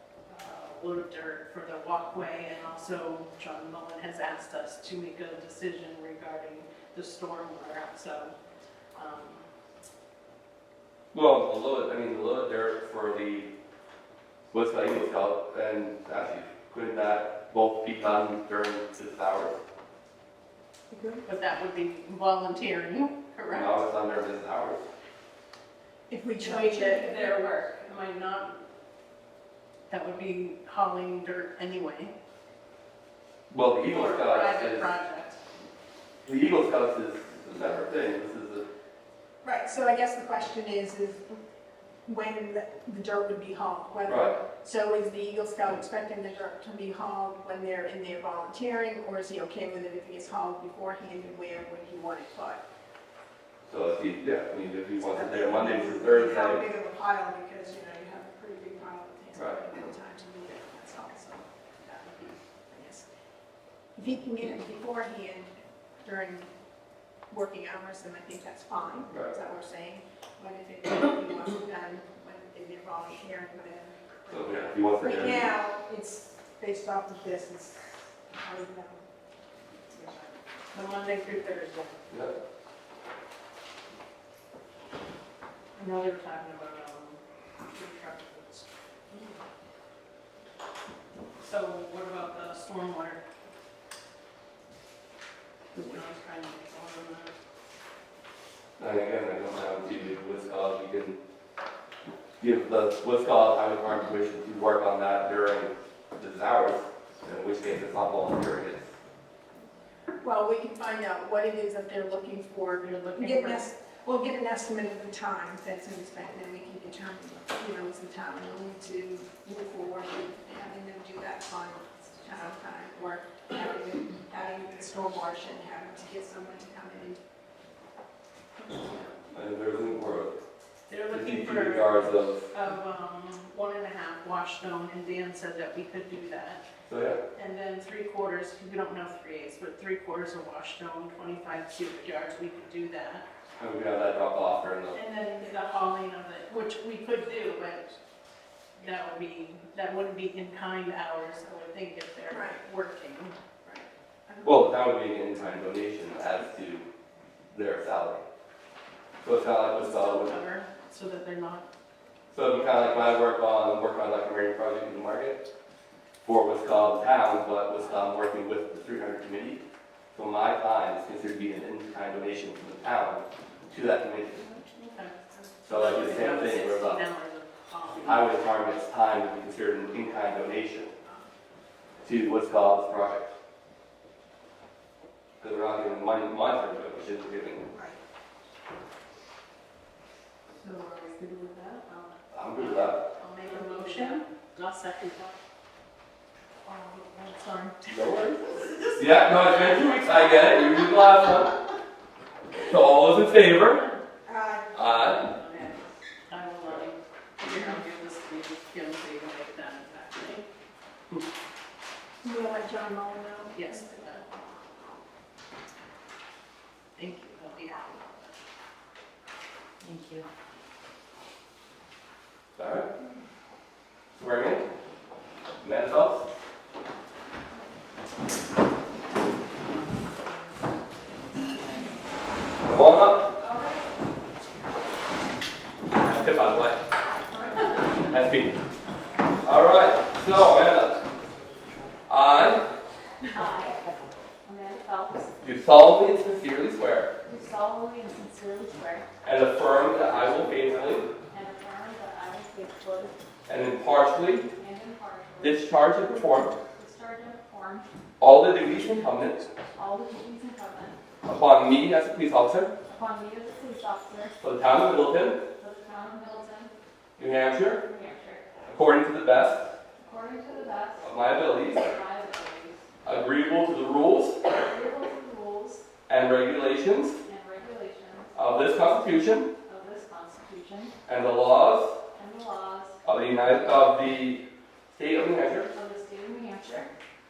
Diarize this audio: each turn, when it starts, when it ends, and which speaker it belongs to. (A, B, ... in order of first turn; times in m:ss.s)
0:00.3-0:08.3 A
0:09.0-0:09.5 A
0:11.1-0:13.5 B
0:14.5-0:19.6 B
0:20.9-0:21.2 C
0:21.2-0:23.8 A
0:23.5-0:24.8 B
0:26.1-0:27.3 C
0:26.4-0:28.6 A
0:29.9-0:32.1 A
0:33.5-0:34.9 B
0:33.9-0:35.4 A
0:36.2-0:38.7 B
0:39.4-0:41.2 C
0:42.0-0:52.6 C
0:44.1-0:44.4 B
0:53.6-0:56.6 B
0:55.0-1:03.1 C
0:59.4-0:59.6 B
1:03.9-1:06.5 C
1:07.3-1:19.0 C
1:14.3-1:15.5 B
1:19.9-1:20.3 C
1:20.7-1:22.1 A
1:22.1-1:22.4 B
1:25.8-1:29.3 A
1:31.4-1:33.2 A
1:35.7-1:37.3 A
1:38.8-1:41.2 B
1:42.4-1:48.9 B
1:50.2-2:07.2 C
1:52.9-1:53.6 A
2:08.6-2:09.1 A
2:09.3-2:10.4 B
2:10.9-2:12.0 A
2:11.1-2:12.4 B
2:12.5-2:16.6 A
2:16.9-2:17.2 B
2:17.3-2:23.2 A
2:23.6-2:25.0 B
2:24.9-2:27.9 A
2:28.8-2:33.4 A
2:32.3-2:32.6 C
2:33.6-2:34.6 C
2:34.4-2:36.9 B
2:37.5-2:38.2 B
2:39.2-2:40.4 B
2:39.7-2:41.7 A
2:42.3-2:45.5 B
2:46.2-2:54.5 B
2:54.4-2:58.4 A
2:55.6-2:57.0 B
2:57.9-3:00.9 B
3:01.0-3:01.3 C
3:02.0-3:03.3 B
3:05.4-3:07.7 B
3:07.7-3:08.0 C
3:10.5-3:15.4 A
3:12.3-3:13.0 B
3:13.6-3:14.0 D
3:16.8-3:17.8 A
3:17.8-3:21.6 B
3:18.7-3:19.0 A
3:22.5-3:23.8 B
3:23.2-3:24.0 A
3:24.2-3:24.7 C
3:24.7-3:25.3 B
3:25.2-3:30.4 A
3:32.2-3:33.8 C
3:33.5-3:34.2 A
3:37.0-3:38.3 A
3:39.8-3:40.2 D
3:42.5-3:42.9 B
3:44.1-3:44.7 B
3:45.6-3:46.3 B
3:52.6-3:53.3 B
3:53.4-3:54.0 D
3:55.9-3:56.8 B
3:56.9-3:58.1 D
3:58.0-3:58.5 B
3:59.4-4:01.0 B
4:02.1-4:02.6 B
4:03.3-4:03.8 D
4:04.4-4:05.4 D
4:05.4-4:07.1 B
4:07.2-4:09.1 D
4:09.2-4:11.1 B
4:11.3-4:13.2 D
4:13.5-4:14.5 B
4:14.5-4:17.9 D
4:15.4-4:16.6 B
4:18.2-4:19.5 B
4:19.8-4:21.0 D
4:21.2-4:22.7 B
4:22.8-4:24.4 D
4:24.4-4:25.4 B
4:25.6-4:26.7 D
4:27.2-4:27.9 B
4:27.8-4:28.5 D
4:28.7-4:29.7 B
4:30.0-4:32.9 D
4:31.0-4:32.0 B
4:33.0-4:34.4 B
4:34.5-4:35.8 D
4:36.1-4:37.2 B
4:37.2-4:38.4 D
4:38.3-4:39.5 B
4:39.6-4:40.9 D
4:41.0-4:42.0 B
4:42.1-4:43.0 D
4:43.0-4:45.7 B
4:45.7-4:46.9 D